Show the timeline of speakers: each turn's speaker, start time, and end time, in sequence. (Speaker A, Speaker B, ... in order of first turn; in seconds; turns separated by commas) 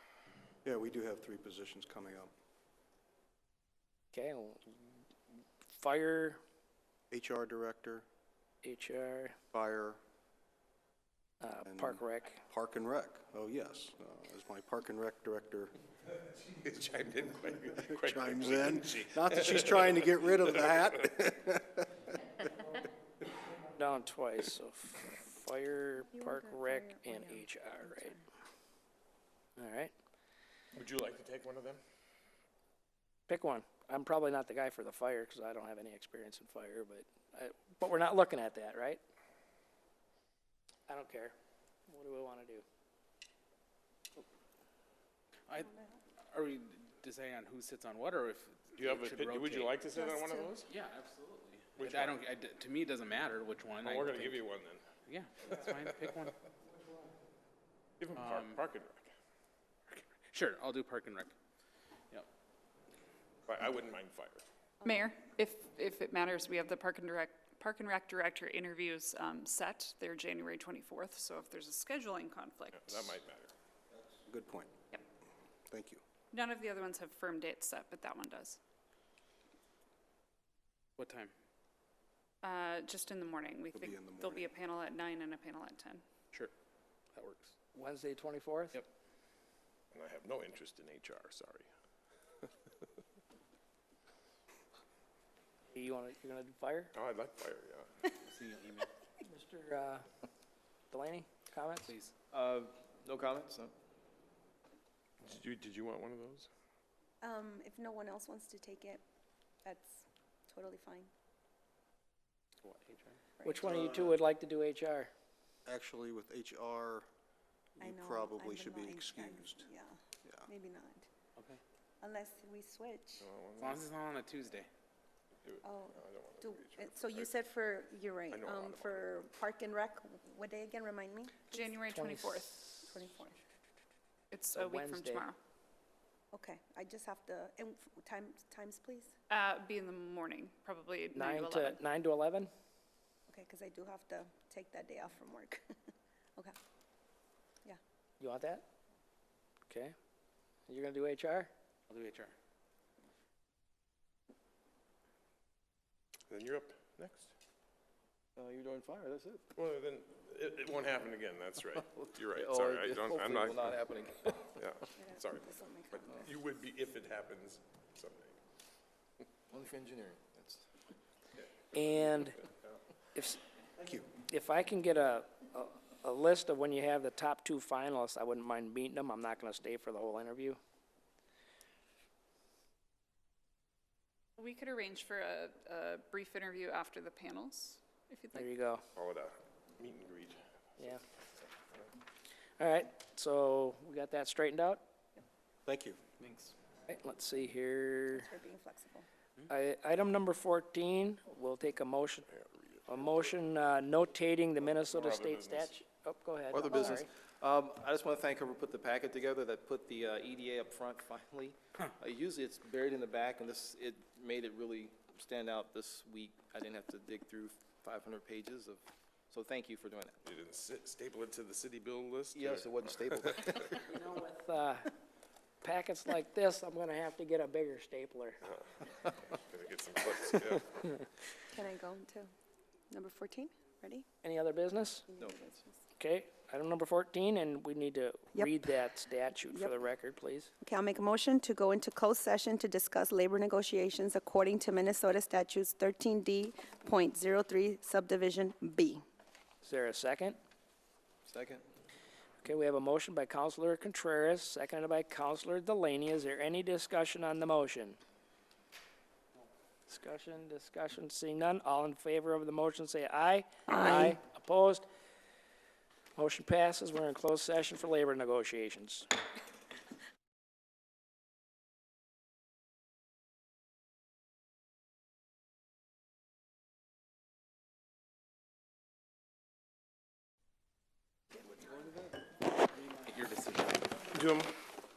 Speaker A: 0.7-2.3, Speaker B: 4.1-4.8, Speaker B: 5.7-6.4, Speaker A: 7.1-8.1, Speaker B: 8.6-9.3, Speaker A: 9.5-10.0, Speaker B: 11.4-12.4, Speaker A: 11.7-15.7, Speaker C: 16.3-21.0, Speaker A: 17.9-21.9, Speaker B: 23.8-28.2, Speaker D: 26.1-28.2, Speaker B: 29.6-29.9, Speaker C: 30.7-31.8, Speaker B: 33.3-39.0, Speaker B: 40.9-41.4, Speaker B: 41.9-42.6, Speaker D: 45.6-46.0, Speaker E: 46.3-49.8, Speaker C: 48.8-50.7, Speaker D: 49.9-50.6, Speaker E: 50.7-54.5, Speaker C: 51.8-52.2, Speaker C: 53.8-54.8, Speaker E: 55.1-56.3, Speaker C: 55.4-56.1, Speaker C: 58.0-59.1, Speaker E: 58.1-58.6, Speaker E: 59.9-61.3, Speaker C: 63.5-64.4, Speaker F: 64.8-73.2, Speaker C: 72.7-73.5, Speaker A: 74.2-74.7, Speaker A: 75.7-76.0, Speaker F: 76.3-78.6, Speaker E: 81.0-81.3, Speaker F: 82.4-86.0, Speaker A: 83.7-84.5, Speaker E: 87.2-87.5, Speaker B: 87.8-88.8, Speaker C: 89.9-91.7, Speaker B: 95.7-96.9, Speaker C: 96.9-97.9, Speaker E: 98.3-98.9, Speaker B: 99.2-100.1, Speaker B: 100.9-101.9, Speaker E: 101.8-102.1, Speaker G: 102.3-103.7, Speaker C: 105.2-106.5, Speaker D: 107.2-109.0, Speaker D: 109.7-111.1, Speaker E: 112.6-113.2, Speaker D: 113.4-113.8, Speaker B: 113.5-115.1, Speaker A: 113.6-114.2, Speaker A: 115.7-117.1, Speaker A: 117.8-119.7, Speaker D: 117.8-119.9, Speaker D: 120.5-121.1, Speaker D: 122.0-123.3, Speaker C: 123.2-123.9, Speaker E: 123.6-124.7, Speaker C: 125.4-127.3, Speaker D: 125.6-131.7, Speaker C: 128.3-129.1, Speaker F: 131.5-132.6, Speaker B: 131.8-132.7, Speaker D: 132.8-133.4, Speaker F: 134.3-135.4, Speaker B: 134.5-135.3, Speaker D: 136.3-139.1, Speaker F: 139.3-141.8, Speaker B: 141.1-142.5, Speaker D: 143.3-145.6, Speaker B: 148.2-148.7, Speaker B: 149.7-149.9, Speaker B: 150.7-151.5, Speaker E: 151.9-152.3, Speaker C: 156.3-157.3, Speaker G: 158.4-159.5, Speaker C: 159.6-163.7, Speaker G: 161.8-164.6, Speaker C: 164.6-168.4, Speaker D: 165.0-166.4, Speaker G: 169.5-170.7, Speaker B: 171.7-172.4, Speaker B: 173.2-173.4, Speaker A: 173.8-174.1, Speaker B: 174.3-180.6, Speaker F: 184.4-188.5, Speaker B: 188.3-188.8, Speaker C: 188.9-190.9, Speaker B: 192.6-194.8, Speaker A: 195.7-196.0, Speaker E: 196.2-196.5, Speaker B: 196.9-198.3, Speaker D: 198.1-199.1, Speaker B: 199.5-202.3, Speaker C: 202.3-203.3, Speaker B: 202.9-207.1, Speaker C: 204.6-205.8, Speaker G: 206.5-220.2, Speaker C: 220.2-223.5, Speaker G: 222.3-223.8, Speaker B: 223.9-224.9, Speaker B: 225.6-228.4, Speaker C: 229.5-231.0, Speaker D: 231.5-232.3, Speaker D: 232.9-234.1, Speaker B: 234.2-235.1, Speaker D: 235.1-235.8, Speaker B: 236.0-240.5, Speaker D: 239.4-239.7, Speaker D: 240.6-249.0, Speaker B: 249.6-250.4, Speaker G: 251.2-251.7, Speaker B: 252.4-258.0, Speaker B: 259.9-264.9, Speaker D: 263.7-264.2, Speaker B: 266.2-269.1, Speaker G: 281.6-282.1, Speaker E: 282.9-284.1, Speaker C: 284.0-284.5